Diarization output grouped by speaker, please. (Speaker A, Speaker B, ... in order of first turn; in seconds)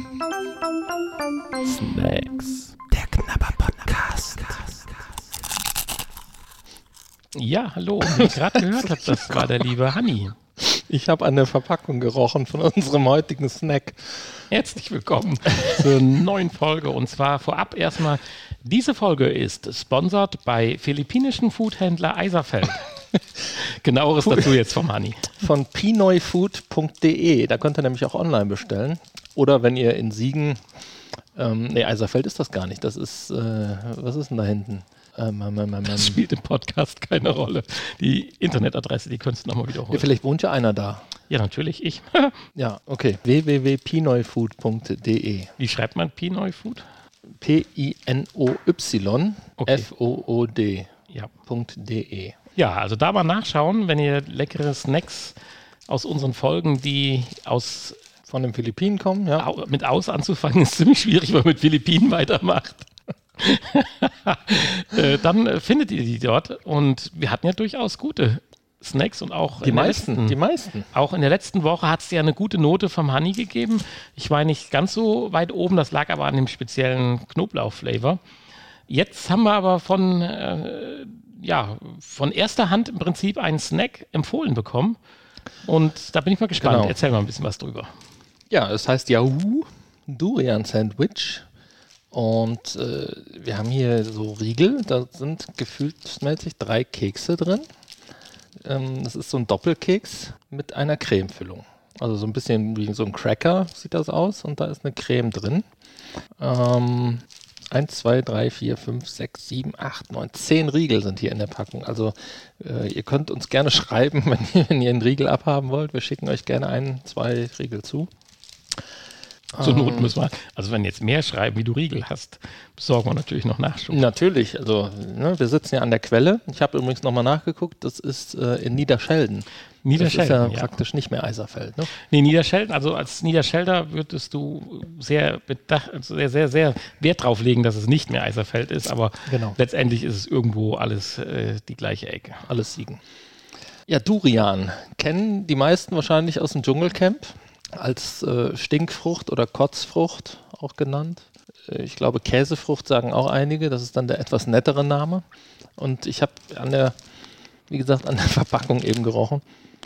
Speaker A: 1.8-4.3, 7.3-10.4, 14.5-22.9, 23.5-25.4, 35.8-40.1, 41.3-42.4, 45.6-46.8, 49.6-49.9, 52.5-55.4, 55.9-58.0, 59.4-62.9, 63.4-70.4, 70.9-78.2, 78.9-85.0, 85.6-87.9, 119.6-124.0, 129.8-130.8, 131.9-142.5
Speaker B: 8.2-9.5, 10.6-14.4, 25.4-30.6, 31.3-36.2, 39.9-41.0, 42.5-45.5, 47.4-50.9, 51.4-52.4, 58.3-59.5, 69.6-70.9, 86.6-87.0, 88.5-91.5, 92.1-97.7, 98.6-105.7, 106.4-118.1, 119.5-120.1, 123.9-131.9, 139.2-139.6, 142.5-143.0, 143.9-155.2, 155.8-156.9, 157.7-159.4